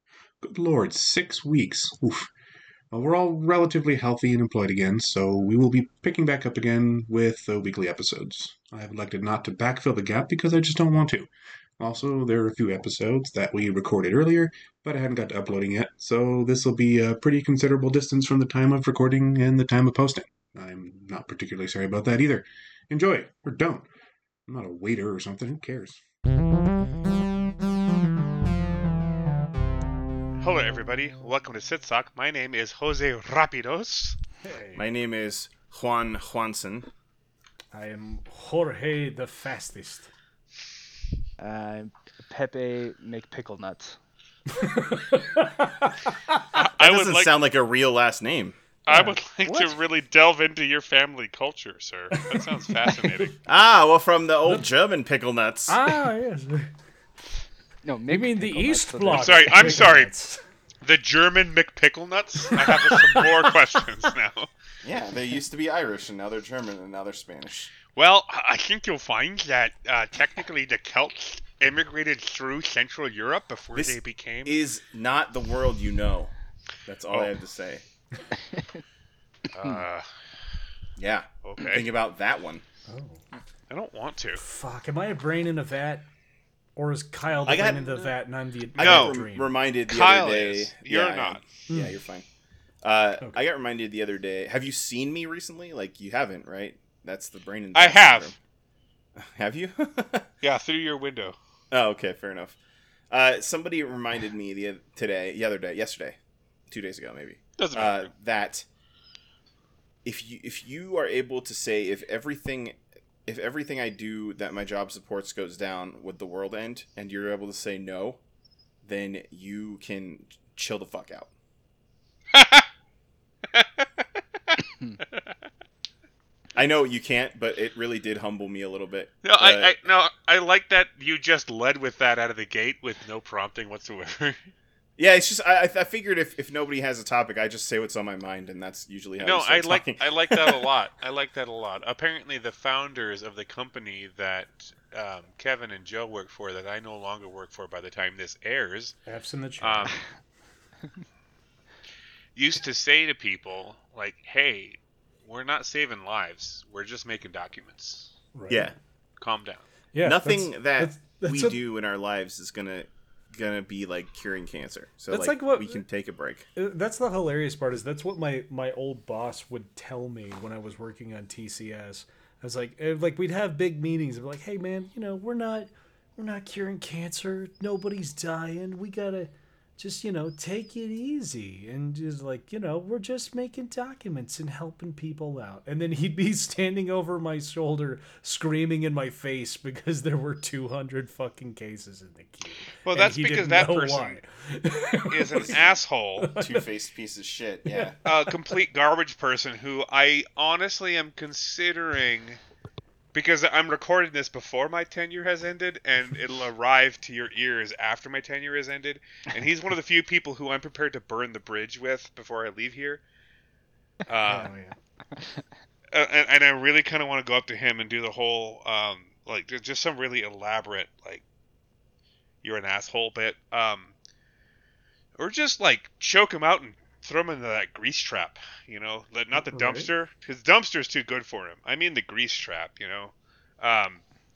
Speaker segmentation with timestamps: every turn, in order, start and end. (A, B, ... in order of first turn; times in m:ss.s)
0:00.4-0:02.3 A
0:02.9-0:23.9 A
0:24.5-0:26.0 A
0:30.4-0:34.2 B
0:34.4-0:34.8 C
0:34.7-0:36.9 D
0:37.7-0:40.1 C
0:41.4-0:44.0 E
0:44.5-0:46.4 C
0:46.5-0:47.3 B
0:46.8-0:48.6 D
0:48.8-0:53.3 B
0:48.9-0:49.2 C
0:49.5-0:49.7 E
0:52.2-0:53.3 C
0:53.4-0:55.8 D
0:55.7-0:56.7 C
0:57.8-0:59.9 E
0:58.1-1:00.4 C
0:59.1-1:00.1 B
1:00.8-1:04.5 B
1:02.5-1:03.5 C
1:04.8-1:07.7 D
1:07.9-1:14.6 B
1:13.7-1:16.3 D
1:16.8-1:17.8 D
1:19.5-1:20.4 B
1:21.0-1:22.6 D
1:21.4-1:21.9 B
1:22.9-1:23.2 C
1:23.7-1:24.4 B
1:24.4-1:26.1 C
1:26.8-1:29.5 C
1:27.4-1:28.0 D
1:28.7-1:29.2 B
1:28.8-1:32.3 D
1:29.9-1:31.5 B
1:31.7-1:32.0 C
1:32.8-1:38.4 D
1:37.7-1:38.3 B
1:39.2-1:40.3 D
1:40.4-1:41.4 B
1:41.7-1:42.6 D
1:43.1-1:46.2 D
1:46.7-1:48.7 D
1:47.6-1:48.1 B
1:50.0-1:58.2 D
1:58.8-2:01.3 D
2:02.3-2:02.7 B
2:03.5-2:04.6 B
2:06.5-2:09.8 D
2:09.2-2:14.5 B
2:15.0-2:20.7 D
2:19.2-2:29.0 B
2:29.0-2:30.0 C
2:29.6-2:30.0 B
2:32.3-2:38.1 B
2:38.3-2:38.7 C
2:38.5-2:38.8 D
2:39.2-2:39.7 B
2:39.9-2:41.6 C
2:40.0-2:46.4 D
2:45.1-2:45.8 C
2:46.6-3:15.5 C
3:12.8-3:14.2 B
3:15.1-3:16.3 B
3:15.4-3:15.7 D
3:16.2-3:16.6 C
3:16.3-3:18.0 D
3:17.7-3:18.3 C
3:18.0-3:22.4 B
3:23.1-3:33.0 B
3:34.0-3:34.5 B
3:34.2-3:34.8 C
3:35.2-3:35.4 E
3:35.9-3:41.2 B
3:42.4-3:43.9 B
3:45.2-3:54.0 B
3:49.5-3:49.9 C